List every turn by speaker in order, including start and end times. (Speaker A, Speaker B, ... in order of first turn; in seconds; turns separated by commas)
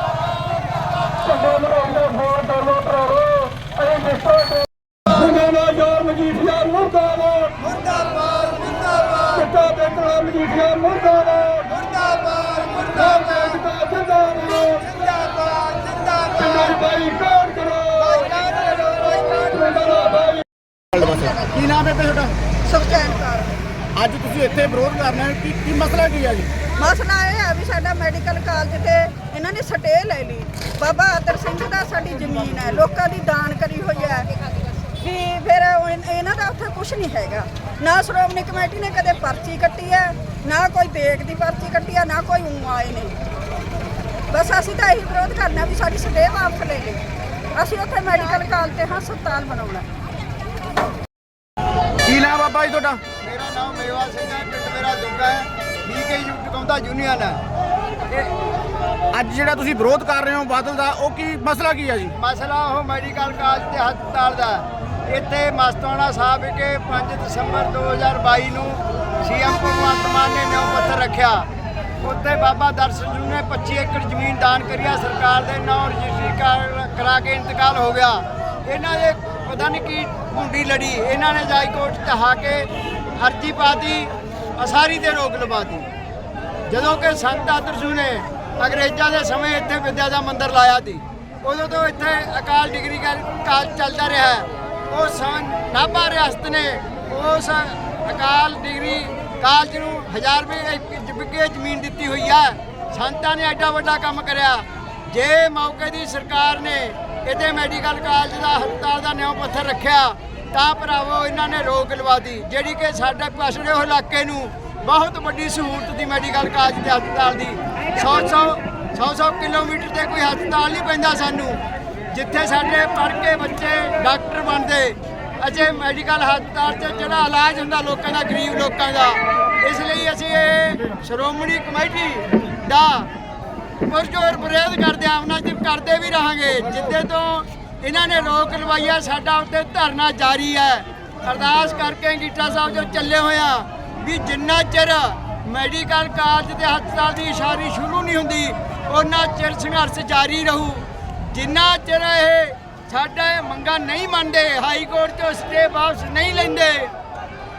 Speaker A: 1.2-7.6, Speaker B: 7.7-9.1, Speaker A: 9.3-11.8, Speaker B: 11.8-12.8, Speaker A: 12.9-14.9, Speaker B: 15.1-16.3, Speaker A: 16.4-20.4, Speaker B: 18.3-19.1, Speaker C: 21.0-22.3, Speaker D: 22.6-23.6, Speaker C: 23.9-26.5, Speaker D: 26.8-34.4, Speaker D: 34.9-43.2, Speaker D: 44.3-47.0, Speaker D: 47.5-49.9, Speaker C: 52.1-53.0, Speaker B: 53.2-57.4, Speaker C: 59.1-62.1, Speaker B: 62.2-71.5, Speaker B: 72.0-82.7, Speaker B: 83.2-85.9, Speaker B: 86.7-121.6, Speaker B: 122.1-133.1, Speaker B: 133.9-156.9